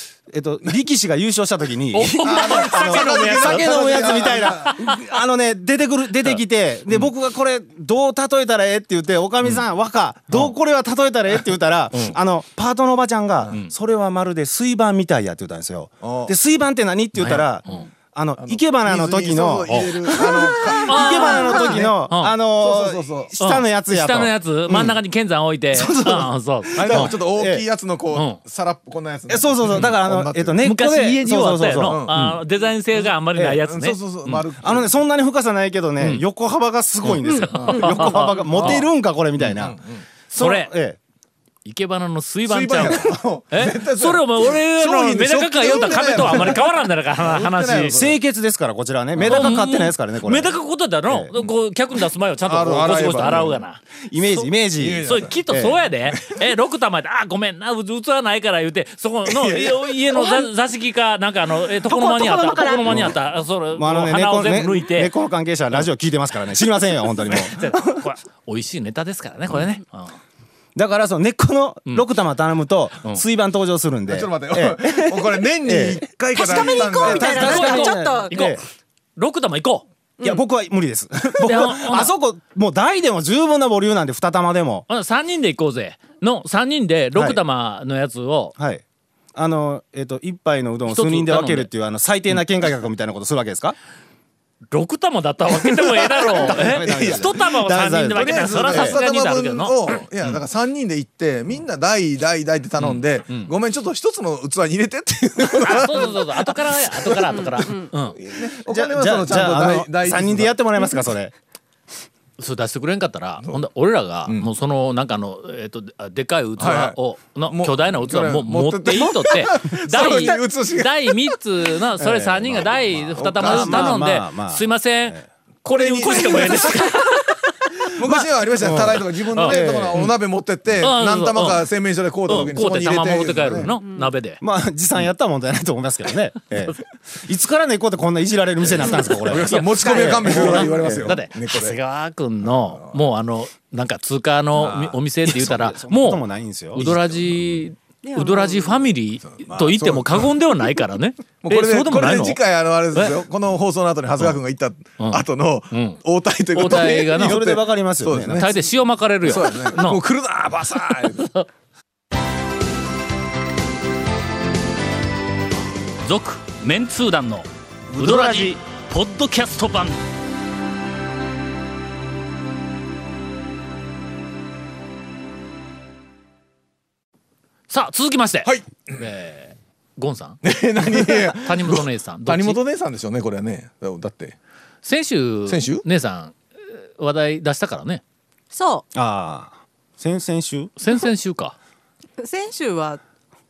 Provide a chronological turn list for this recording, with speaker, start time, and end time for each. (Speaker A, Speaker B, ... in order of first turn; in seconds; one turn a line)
Speaker A: 0.3-25.0
Speaker B: 1.9-4.7
Speaker C: 2.2-4.8
Speaker B: 6.2-7.1
Speaker C: 16.0-16.3
Speaker B: 17.2-17.9
Speaker C: 18.4-22.0
Speaker B: 19.7-19.9
Speaker D: 20.3-21.8
Speaker B: 20.9-22.4
Speaker C: 22.6-23.3
Speaker B: 23.4-27.1
Speaker A: 25.7-27.6
Speaker C: 26.8-30.6
Speaker B: 28.1-28.4
Speaker A: 29.3-32.0
Speaker B: 29.7-30.0
Speaker B: 30.6-34.4
Speaker C: 31.8-32.4
Speaker A: 33.4-33.6
Speaker C: 33.7-34.9
Speaker A: 34.5-39.8
Speaker B: 36.0-36.2
Speaker B: 37.0-38.9
Speaker C: 37.5-38.8
Speaker C: 39.4-40.0
Speaker B: 40.3-40.7
Speaker A: 40.3-41.0
Speaker B: 41.6-48.1
Speaker C: 42.5-48.1
Speaker A: 47.9-51.3
Speaker C: 49.2-49.6
Speaker B: 49.2-54.5
Speaker C: 52.4-53.6
Speaker A: 53.0-53.5
Speaker A: 54.1-55.8
Speaker C: 54.8-55.4
Speaker B: 55.0-65.1
Speaker C: 56.0-56.4
Speaker C: 59.2-60.2
Speaker A: 60.2-60.4
Speaker A: 61.8-63.2
Speaker A: 63.7-68.0
Speaker B: 67.3-70.2
Speaker A: 70.8-76.0
Speaker C: 74.1-77.5
Speaker D: 76.3-78.6
Speaker A: 77.0-78.6
Speaker B: 77.2-78.5
Speaker B: 79.2-79.8
Speaker A: 80.2-84.9
Speaker B: 81.4-82.1
Speaker B: 84.9-88.5
Speaker A: 87.1-87.4
Speaker A: 88.6-88.8
Speaker A: 89.3-93.8
Speaker B: 90.9-91.7
Speaker B: 94.7-100.4
Speaker A: 96.2-99.0
Speaker C: 96.4-110.6
Speaker B: 102.8-103.5
Speaker B: 105.6-108.2
Speaker D: 107.3-107.9
Speaker A: 108.7-111.3
Speaker B: 112.4-127.3
Speaker C: 113.4-113.7
Speaker C: 116.6-121.3
Speaker A: 122.0-125.2
Speaker C: 123.2-124.0
Speaker C: 125.7-127.0
Speaker C: 127.9-133.7
Speaker A: 128.1-130.1
Speaker B: 129.3-130.1
Speaker B: 130.8-131.7
Speaker B: 132.2-134.4
Speaker A: 134.4-141.2
Speaker C: 138.6-141.8
Speaker B: 139.4-139.7
Speaker B: 140.2-152.4
Speaker C: 142.4-143.0
Speaker C: 144.5-145.0
Speaker A: 145.2-147.4
Speaker D: 148.0-148.9
Speaker C: 149.2-150.3
Speaker C: 151.4-158.5
Speaker B: 155.0-156.0
Speaker B: 156.5-157.4
Speaker A: 156.7-158.5
Speaker B: 158.3-160.0
Speaker C: 159.2-161.3
Speaker B: 160.7-161.5
Speaker B: 166.0-167.4
Speaker C: 167.9-168.5
Speaker B: 168.0-170.0
Speaker B: 177.7-182.6
Speaker C: 178.4-179.0
Speaker C: 180.4-184.3
Speaker B: 184.8-188.0
Speaker C: 185.5-185.8
Speaker D: 188.5-188.8
Speaker A: 188.9-190.7
Speaker B: 190.8-191.6
Speaker D: 192.2-193.0